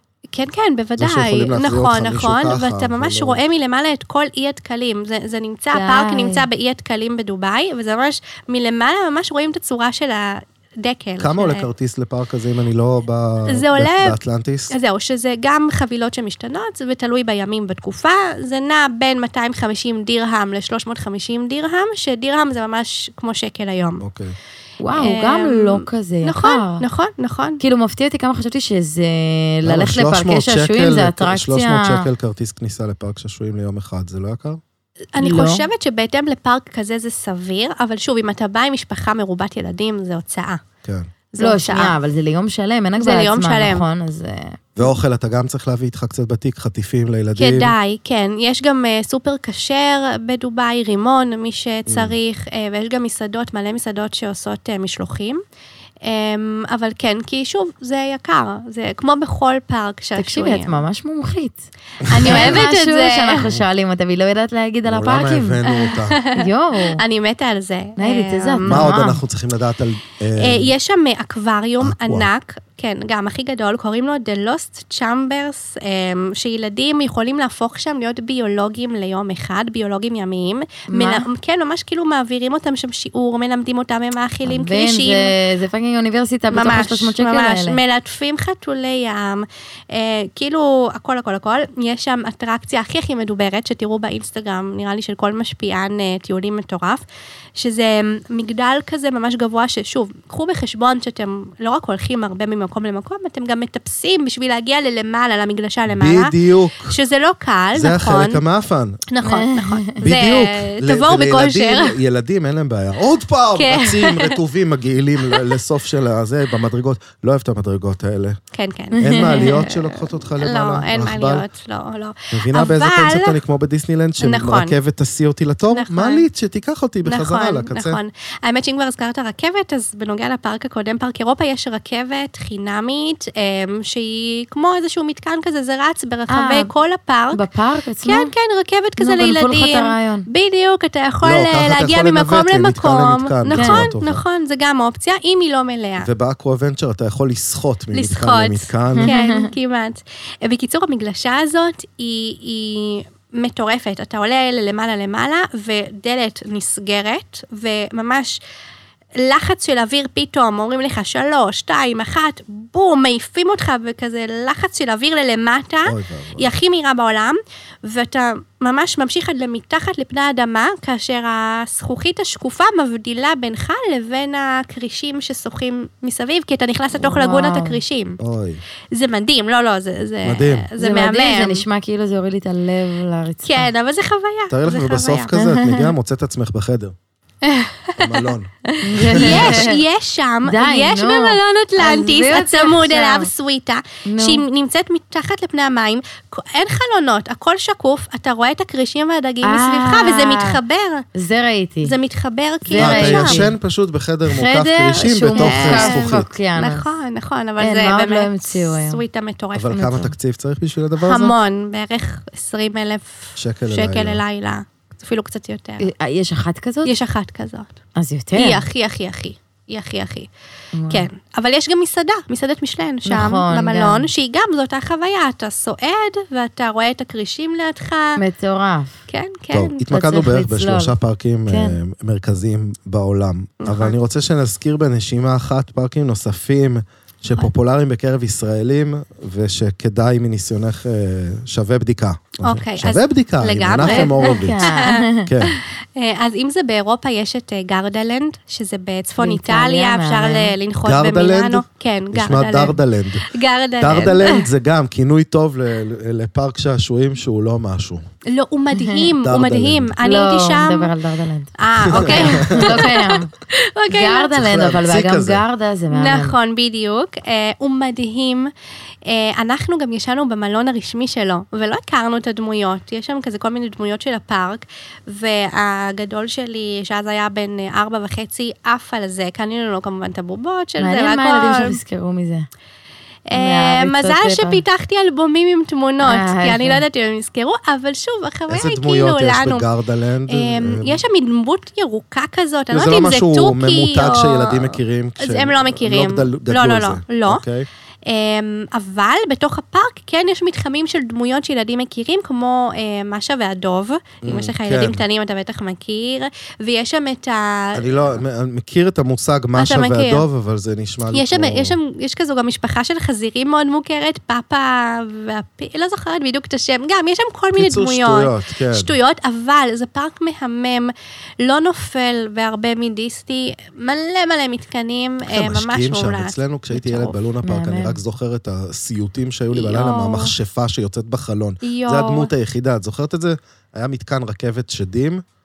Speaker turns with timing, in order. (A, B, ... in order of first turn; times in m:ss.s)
0:00.3-0:11.6 A
0:01.0-0:03.4 B
0:05.7-0:06.5 C
0:11.2-0:14.7 B
0:13.5-0:14.2 A
0:14.7-0:24.0 A
0:24.0-0:24.4 B
0:24.8-0:26.8 C
0:24.9-0:27.6 A
0:27.6-0:32.1 C
0:29.6-0:34.6 B
0:35.1-0:40.6 A
0:35.2-0:35.7 C
0:40.8-0:41.1 B
0:41.3-0:41.9 A
0:41.4-0:44.6 C
0:43.0-0:43.8 A
0:44.8-0:47.7 B
0:47.4-0:55.4 A
0:51.9-0:52.1 B
0:56.0-1:00.8 A
1:00.2-1:05.6 C
1:02.0-1:02.6 B
1:02.1-1:03.5 A
1:04.8-1:06.2 B
1:05.6-1:08.9 A
1:06.3-1:07.0 C
1:08.0-1:09.2 C
1:08.6-1:10.7 B
1:10.4-1:25.3 A
1:11.8-1:12.3 B
1:20.9-1:21.3 C
1:24.4-1:27.8 C
1:26.5-1:37.0 A
1:37.6-1:46.3 A
1:45.9-1:46.9 B
1:46.8-1:48.4 A
1:47.7-1:49.0 B
1:49.1-1:52.0 A
1:49.2-1:50.0 C
1:50.0-1:58.4 B
1:53.6-1:54.4 A
1:58.5-2:03.4 A
1:59.0-1:59.6 C
1:59.0-2:01.4 B
2:02.3-2:08.0 B
2:04.2-2:04.7 A
2:05.7-2:06.2 A
2:07.0-2:17.4 A
2:16.3-2:16.7 C
2:17.3-2:18.3 C
2:18.0-2:26.1 A
2:19.0-2:20.3 C
2:21.2-2:24.2 B
2:23.5-2:23.9 C
2:26.0-2:29.1 B
2:27.9-2:38.4 A
2:29.0-2:29.5 C
2:39.2-2:58.2 A
2:45.8-2:46.5 B
2:57.0-2:57.8 C
2:58.2-2:58.6 B
2:58.9-3:01.6 A
3:00.2-3:00.7 B
3:00.8-3:03.7 C
3:03.4-3:05.3 A
3:04.5-3:06.9 B
3:05.3-3:05.9 C
3:07.4-3:21.1 A
3:08.0-3:09.7 B
3:08.8-3:09.8 C
3:10.4-3:13.3 C
3:14.0-3:14.4 C
3:19.4-3:20.6 C
3:21.1-3:21.9 C
3:21.8-3:23.5 A
3:22.6-3:23.5 C
3:22.7-3:26.3 B
3:24.3-3:26.9 C
3:25.3-3:29.8 A
3:27.6-3:29.0 C
3:29.5-3:31.3 B
3:29.7-3:30.1 C
3:31.0-3:35.9 A
3:33.4-3:34.2 B
3:35.8-3:37.0 C
3:36.8-3:37.7 A
3:38.0-3:38.6 C
3:38.3-3:40.3 A
3:40.7-3:41.1 C
3:40.9-3:48.2 A
3:43.0-3:44.1 C
3:48.2-3:49.0 C
3:49.1-3:49.8 A
3:49.5-4:04.6 B
3:49.8-3:50.9 C
3:51.5-3:51.8 C
3:53.6-3:53.9 A
4:02.4-4:14.5 A
4:03.8-4:05.3 C
4:05.2-4:05.6 B
4:09.2-4:10.5 C
4:10.8-4:13.3 B
4:13.8-4:18.0 B
4:18.3-4:20.9 A
4:18.7-4:19.1 C
4:19.2-4:19.9 B
4:20.0-4:23.3 C
4:21.6-4:24.4 A
4:21.8-4:22.8 B
4:23.9-4:26.4 C
4:24.3-4:25.4 B
4:25.9-4:28.5 A
4:29.0-4:41.8 A
4:40.8-4:42.5 C
4:43.3-4:49.7 A
4:43.3-4:44.6 C
4:46.0-4:46.8 C
4:48.5-4:51.0 B
4:50.3-4:57.4 A
4:52.7-4:57.7 B
4:58.0-5:08.2 A
5:04.2-5:05.0 B
5:07.7-5:11.8 B
5:09.6-5:10.2 A
5:11.1-5:27.1 A
5:17.6-5:18.9 B
5:25.2-5:35.2 B
5:27.4-5:28.0 C
5:29.5-5:30.3 A
5:31.6-5:32.3 A